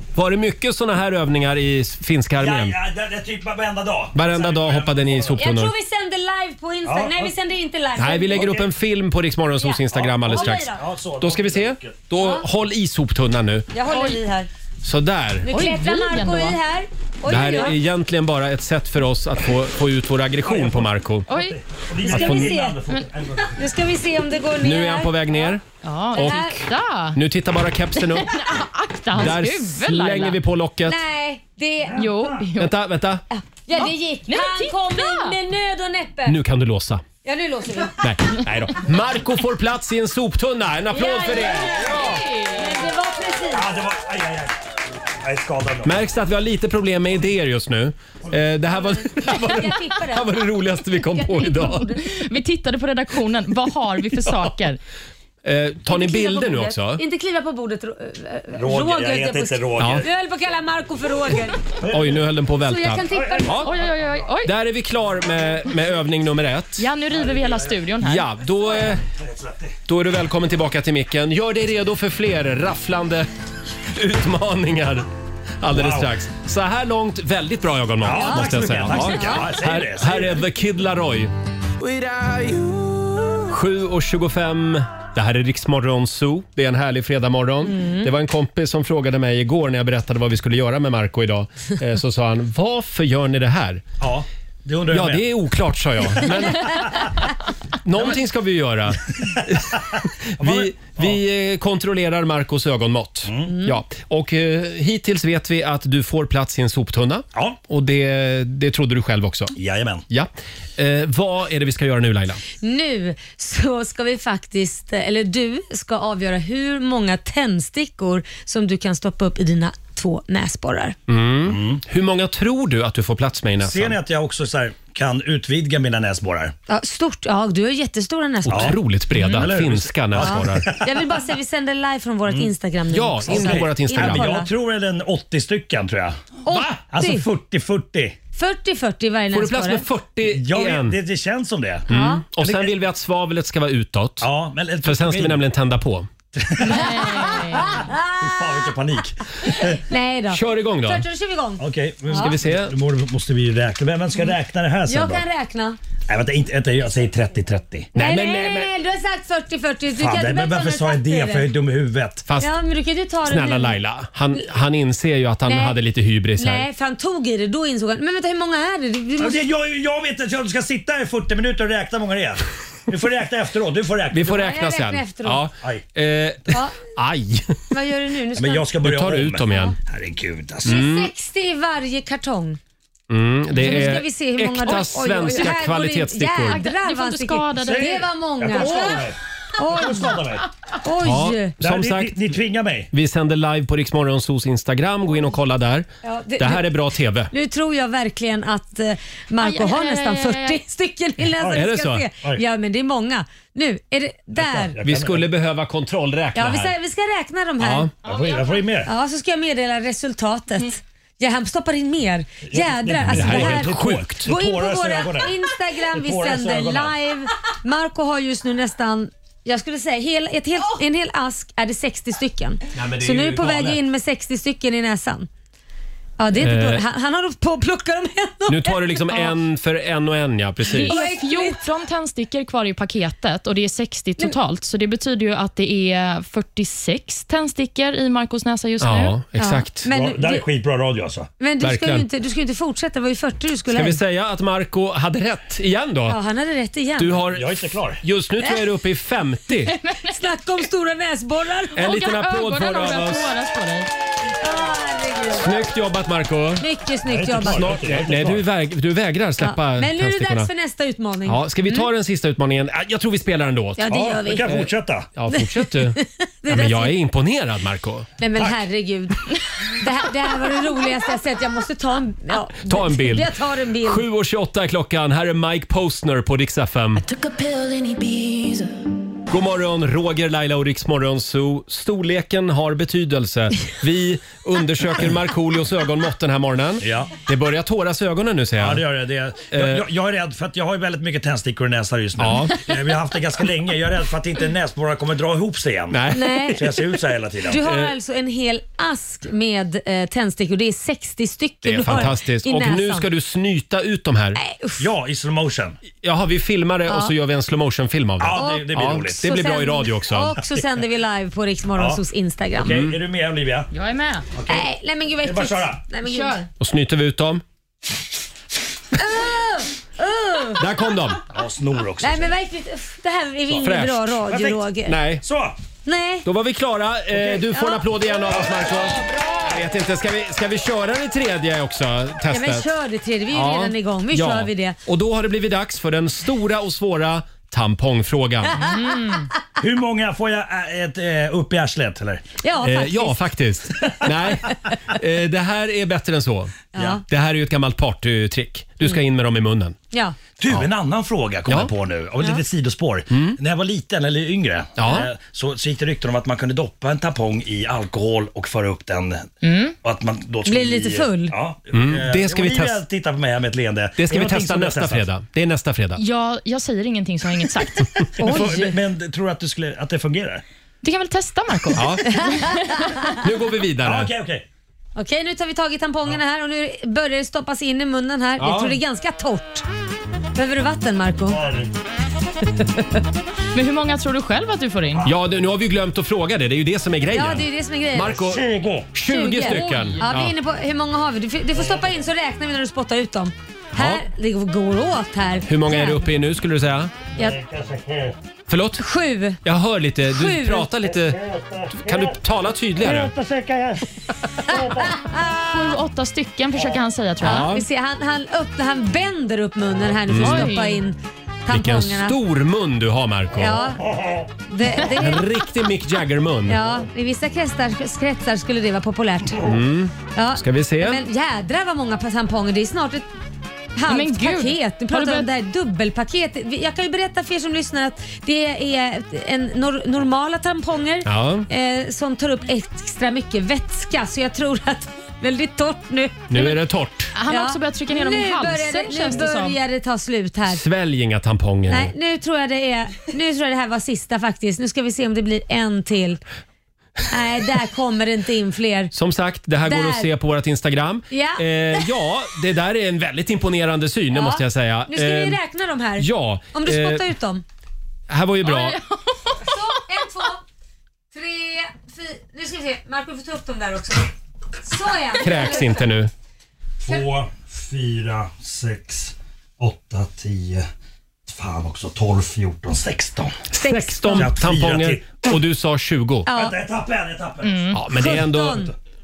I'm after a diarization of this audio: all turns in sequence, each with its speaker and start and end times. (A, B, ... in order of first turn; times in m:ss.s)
0:00.1-0:02.8 A
0:02.4-0:05.4 B
0:04.1-0:05.7 A
0:05.4-0:08.5 C
0:06.8-0:07.3 B
0:08.0-0:13.7 A
0:08.3-0:08.7 B
0:09.6-0:10.8 C
0:09.9-0:12.0 B
0:12.2-0:12.4 C
0:13.7-0:14.5 C
0:13.9-0:14.2 D
0:14.8-0:15.5 A
0:15.4-0:17.8 C
0:15.5-0:16.6 D
0:17.3-0:21.3 A
0:20.4-0:23.6 B
0:21.3-0:21.6 D
0:22.1-0:22.8 C
0:22.1-0:22.6 A
0:23.6-0:25.6 C
0:24.6-0:26.5 A
0:25.8-0:27.2 D
0:26.1-0:26.6 C
0:27.1-0:28.4 A
0:28.1-0:30.4 D
0:29.1-0:31.0 A
0:30.9-0:32.1 C
0:32.0-0:32.7 D
0:32.6-0:33.2 A
0:33.3-0:36.4 C
0:33.8-0:35.4 D
0:36.3-0:37.0 A
0:37.2-0:38.0 C
0:38.0-0:42.1 A
0:40.9-0:43.7 C
0:41.9-0:42.8 D
0:43.5-0:44.6 B
0:45.2-0:46.0 B
0:45.8-0:51.9 A
0:49.0-0:52.0 C
0:52.0-0:54.8 D
0:55.4-0:57.0 A
0:55.9-1:01.6 C
0:58.6-1:00.1 B
0:59.8-1:00.0 A
1:01.8-1:02.3 B
1:01.9-1:03.7 A
1:02.6-1:03.5 C
1:03.1-1:04.2 B
1:03.6-1:04.5 D
1:04.4-1:06.9 A
1:06.8-1:08.3 D
1:07.1-1:07.8 B
1:08.0-1:09.0 A
1:09.1-1:09.8 B
1:09.9-1:13.3 A
1:13.9-1:15.1 A
1:15.6-1:21.3 A
1:15.7-1:16.1 B
1:18.0-1:20.4 B
1:18.1-1:19.5 C
1:23.5-1:33.8 A
1:27.6-1:28.1 C
1:34.0-1:35.2 B
1:34.9-1:37.0 A
1:36.2-1:37.0 B
1:37.8-1:39.8 A
1:39.4-1:41.2 B
1:40.4-1:49.5 A
1:43.3-1:43.5 B
1:43.5-1:43.8 C
1:49.6-1:50.0 B
1:50.1-1:52.4 A
1:52.6-2:01.0 C
2:01.1-2:04.0 A
2:01.4-2:01.8 B
2:03.6-2:06.5 B
2:06.7-2:08.8 C
2:08.4-2:10.7 A
2:08.5-2:11.0 B
2:09.1-2:09.4 D
2:10.2-2:14.5 C
2:12.9-2:14.3 A
2:13.3-2:18.2 B
2:16.4-2:17.2 C
2:18.4-2:19.9 C
2:19.3-2:21.0 A
2:20.2-2:21.9 B
2:21.9-2:24.3 A
2:21.9-2:22.2 C
2:22.4-2:22.7 B
2:24.2-2:25.4 B
2:24.8-2:26.1 A
2:26.4-2:27.1 B
2:26.6-2:27.8 D
2:27.1-2:28.2 C
2:28.2-2:29.8 B
2:29.5-2:32.4 C
2:30.3-2:31.0 A
2:31.6-2:35.2 B
2:32.1-2:32.8 A
2:34.9-2:35.8 C
2:36.1-2:37.9 B
2:37.9-2:38.7 A
2:37.9-2:41.5 C
2:39.9-2:42.3 B
2:42.3-2:42.5 A
2:42.4-2:43.8 C
2:43.2-2:46.7 A
2:45.5-2:45.8 C
2:46.4-2:49.4 C
2:49.2-2:54.3 B
2:54.1-2:57.6 A
2:54.2-2:55.5 C
2:56.5-2:56.8 C
2:57.7-2:58.7 C
2:58.4-3:00.9 B
2:58.8-2:59.8 A
2:59.5-2:59.8 C
3:00.6-3:01.1 A
3:00.6-3:02.6 C
3:03.1-3:06.6 A
3:03.6-3:09.0 C
3:06.5-3:08.0 D
3:07.6-3:10.5 B
3:09.6-3:10.2 C
3:10.8-3:11.6 C
3:11.0-3:12.2 A
3:11.6-3:12.9 B
3:12.9-3:15.9 A
3:16.0-3:16.7 C
3:16.4-3:17.3 A
3:17.3-3:24.8 C
3:19.4-3:20.6 D
3:21.4-3:21.7 B
3:21.5-3:22.1 A
3:24.4-3:25.3 B
3:24.8-3:26.8 A
3:26.4-3:27.9 C
3:27.6-3:27.9 A
3:28.0-3:28.6 D
3:28.0-3:28.9 B
3:28.9-3:45.3 C
3:32.4-3:36.9 B
3:33.1-3:34.3 A
3:42.7-3:43.8 A
3:46.2-3:49.3 C
3:46.3-3:46.8 A
3:48.5-3:51.0 A
3:50.7-3:51.6 C
3:50.7-3:59.1 D
3:58.8-3:59.8 A
3:59.4-4:00.4 C
3:59.9-4:01.3 B
4:01.4-4:04.0 C
4:01.6-4:02.1 A
4:03.7-4:06.2 A
4:06.1-4:07.2 C
4:07.0-4:09.8 A
4:07.3-4:08.0 B
4:09.8-4:10.1 D
4:10.0-4:12.0 C
4:11.8-4:13.3 A
4:11.8-4:13.9 D
4:14.4-4:15.5 C
4:15.3-4:16.6 A
4:16.6-4:17.8 C
4:17.1-4:18.4 B
4:17.4-4:20.5 A
4:19.4-4:21.8 C
4:21.3-4:28.1 A
4:23.8-4:24.6 C
4:23.9-4:25.1 B
4:25.3-4:27.0 C
4:28.2-4:34.0 C
4:32.6-4:37.0 A
4:39.3-4:48.8 A
4:46.8-4:47.1 B
4:48.6-4:57.6 B
4:49.5-4:49.9 A
4:52.2-4:52.6 A
4:55.9-4:56.5 A
4:56.1-4:56.8 C
4:57.4-5:03.1 C
4:57.6-4:57.9 A
5:01.6-5:04.4 A
5:04.4-5:04.9 C
5:04.8-5:05.8 B
5:06.0-5:10.4 A
5:08.2-5:09.3 B
5:08.4-5:12.8 C
5:11.8-5:12.0 B
5:12.6-5:13.7 B
5:12.6-5:13.0 A
5:13.7-5:14.3 D
5:14.4-5:14.7 B
5:14.5-5:16.4 C
5:15.2-5:15.8 B
5:16.0-5:16.4 D
5:16.6-5:17.4 A
5:19.0-5:20.6 C
5:20.6-5:21.2 A
5:21.3-5:22.3 B
5:22.0-5:25.0 C
5:23.6-5:24.2 A
5:24.2-5:24.6 B
5:24.9-5:25.2 A
5:25.2-5:25.6 B
5:25.8-5:26.3 C
5:26.2-5:32.7 A
5:27.1-5:27.4 B
5:27.5-5:28.1 C
5:28.3-5:29.1 B
5:32.3-5:34.8 C
5:33.3-5:38.6 A
5:38.6-5:39.3 D
5:39.6-5:42.2 B
5:42.4-5:43.2 C
5:42.6-5:49.8 A
5:46.7-5:47.0 C
5:50.4-6:05.0 B
5:51.5-5:51.7 A
5:53.1-5:53.4 A
5:54.8-5:55.1 A
5:59.4-5:59.7 D
6:00.4-6:01.3 C
6:01.7-6:02.8 A
6:04.0-6:06.0 A
6:06.0-6:08.1 D
6:08.2-6:10.4 B
6:08.2-6:08.8 C
6:10.8-6:12.9 D
6:11.7-6:12.1 A
6:12.1-6:12.9 C
6:13.1-6:14.1 A
6:13.8-6:14.4 B
6:15.0-6:19.6 C
6:18.4-6:18.7 B
6:20.3-6:21.4 C
6:21.3-6:21.7 B
6:23.5-6:25.1 D
6:25.0-6:30.3 A
6:27.1-6:28.2 C
6:28.0-6:28.9 B
6:29.0-6:36.0 C
6:31.6-6:31.9 B
6:33.7-6:34.0 A
6:35.5-6:36.9 A
6:37.2-6:38.1 B
6:38.5-6:38.8 A
6:38.8-6:39.4 C
6:39.4-6:43.1 A
6:40.1-6:40.7 C
6:41.2-6:42.1 B
6:42.8-6:43.9 B
6:44.5-6:44.9 B
6:44.7-6:45.4 C
6:45.5-6:47.6 D
6:47.2-6:47.7 A
6:47.2-6:52.2 C
6:50.1-6:50.5 A
6:50.2-6:50.8 D
6:51.5-6:53.7 A
6:53.4-6:53.8 C
6:54.5-6:55.2 C
6:54.8-6:56.6 A
6:56.5-6:59.6 C
6:59.4-7:01.0 A
7:00.1-7:03.1 C
7:03.8-7:16.6 C
7:03.9-7:05.3 D
7:11.0-7:11.5 A
7:16.3-7:17.1 A
7:17.1-7:19.6 D
7:17.3-7:20.6 C
7:20.5-7:21.9 A
7:21.7-7:26.2 C
7:27.1-7:28.9 C
7:28.9-7:35.4 A
7:29.7-7:30.1 C
7:31.1-7:31.9 C
7:34.1-7:37.4 C
7:36.0-7:37.1 A
7:38.1-7:38.8 A
7:38.4-7:39.4 D
7:39.4-7:40.4 C
7:41.1-7:44.1 C
7:44.6-7:45.8 C
7:45.2-7:46.1 A
7:46.8-7:50.7 B
7:51.3-7:53.4 B
7:53.5-7:56.3 A
7:53.6-7:54.3 C
7:54.1-7:55.3 B
7:56.3-7:56.6 C
7:56.3-7:58.7 B
7:57.4-7:57.8 D
7:57.7-7:58.7 A
7:57.9-7:58.7 C